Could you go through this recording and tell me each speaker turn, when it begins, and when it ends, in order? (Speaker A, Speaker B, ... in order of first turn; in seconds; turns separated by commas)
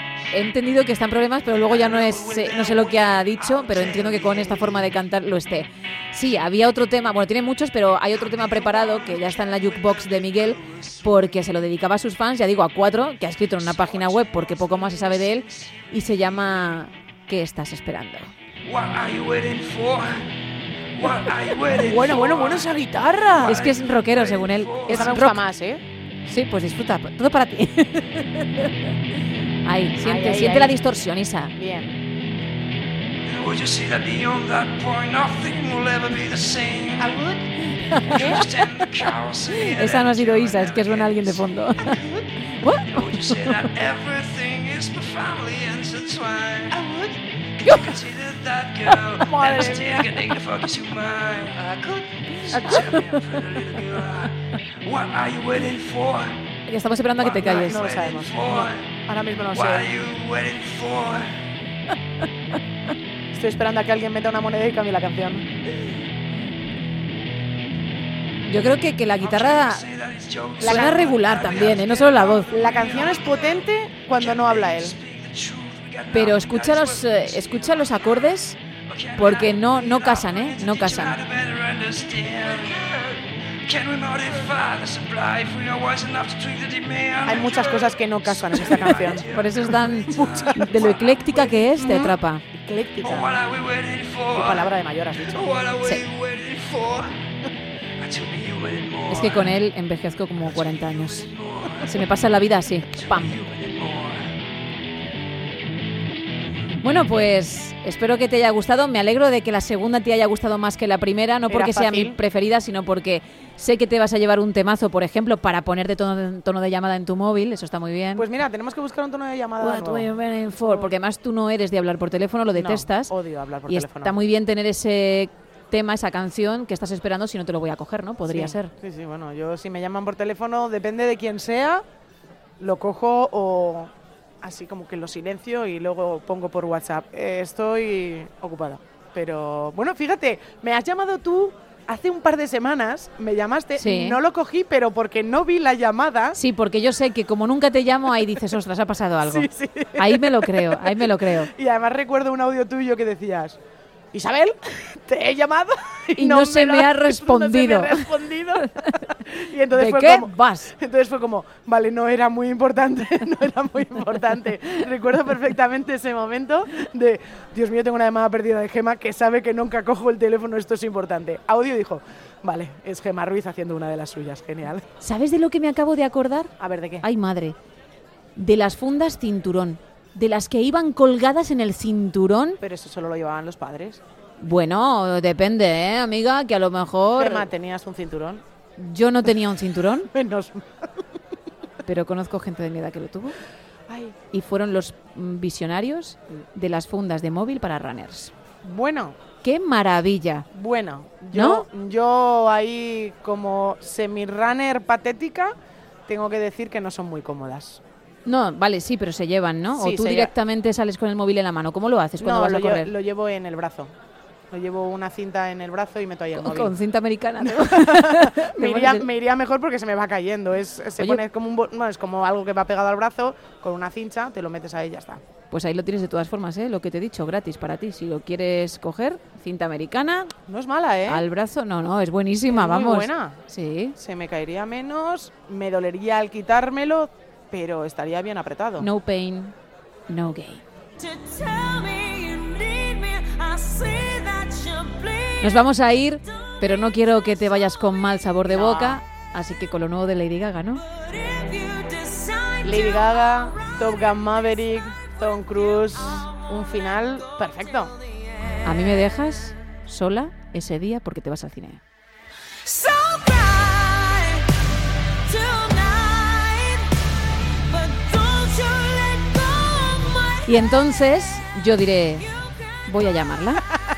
Speaker A: 0.3-18.3, Speaker B: 1.5-4.9, Speaker B: 8.2-11.3, Speaker B: 13.6-15.8, Speaker B: 18.6-20.4, Speaker B: 20.9-22.7, Speaker C: 21.7-23.6, Speaker B: 23.3-25.2, Speaker A: 23.4-25.4, Speaker C: 24.9-25.8, Speaker A: 26.3-28.9, Speaker A: 29.6-31.5, Speaker C: 30.0-30.8, Speaker C: 31.6-32.0, Speaker B: 33.2-37.3, Speaker C: 37.0-37.6, Speaker A: 37.7-39.1, Speaker B: 37.9-42.1, Speaker C: 38.1-38.4, Speaker A: 39.7-42.0, Speaker A: 42.6-43.7, Speaker B: 42.6-46.8, Speaker B: 47.6-56.4, Speaker A: 47.6-47.9, Speaker C: 49.2-50.1, Speaker A: 52.7-53.2, Speaker A: 56.7-57.8, Speaker B: 57.2-59.0, Speaker C: 57.4-59.9, Speaker B: 59.5-61.5, Speaker C: 63.3-65.5, Speaker A: 68.5-69.8, Speaker B: 69.2-92.1, Speaker C: 70.6-71.2, Speaker A: 70.6-72.5, Speaker C: 72.5-75.0, Speaker A: 76.1-78.6, Speaker A: 79.2-81.2, Speaker C: 87.2-89.3, Speaker A: 89.3-92.5, Speaker C: 90.2-91.0, Speaker C: 91.8-93.3, Speaker B: 93.0-97.2, Speaker C: 94.3-95.6, Speaker B: 98.0-99.6, Speaker A: 99.1-101.3, Speaker B: 100.5-102.1, Speaker A: 101.8-103.4, Speaker B: 102.9-104.3, Speaker A: 106.8-118.3, Speaker C: 111.5-112.2, Speaker C: 118.2-120.9, Speaker A: 119.6-123.1, Speaker C: 122.5-124.2, Speaker A: 123.7-128.7, Speaker C: 128.3-131.8, Speaker C: 132.6-146.4, Speaker A: 143.8-144.2, Speaker A: 146.3-151.5, Speaker C: 149.2-153.6, Speaker C: 154.1-174.9, Speaker A: 156.2-158.1, Speaker A: 158.6-159.1, Speaker A: 159.7-160.7, Speaker A: 175.0-177.6, Speaker C: 176.6-177.1, Speaker A: 178.4-182.6, Speaker C: 182.6-184.0, Speaker A: 184.4-187.5, Speaker C: 187.2-188.4, Speaker A: 188.8-190.1, Speaker C: 190.1-191.1, Speaker A: 191.8-193.4, Speaker C: 193.9-194.2, Speaker A: 194.3-198.3, Speaker C: 198.6-199.2, Speaker A: 199.4-200.5, Speaker C: 200.5-205.6, Speaker A: 201.3-201.7, Speaker C: 206.1-207.8, Speaker A: 208.3-212.9, Speaker C: 209.7-210.3, Speaker C: 212.2-213.9, Speaker C: 214.5-216.7, Speaker A: 216.3-219.1, Speaker C: 217.4-225.2, Speaker A: 225.5-230.3, Speaker C: 230.5-231.2, Speaker A: 231.1-234.0, Speaker C: 232.5-233.4, Speaker C: 234.0-238.9, Speaker A: 238.8-239.6, Speaker A: 240.1-240.6, Speaker D: 241.0-245.7, Speaker A: 245.4-250.8, Speaker C: 248.5-249.0, Speaker D: 250.8-254.5, Speaker C: 252.6-257.9, Speaker D: 255.0-259.0, Speaker A: 258.6-261.8, Speaker D: 262.6-270.8, Speaker A: 270.5-272.3, Speaker D: 272.2-272.9, Speaker A: 272.9-273.7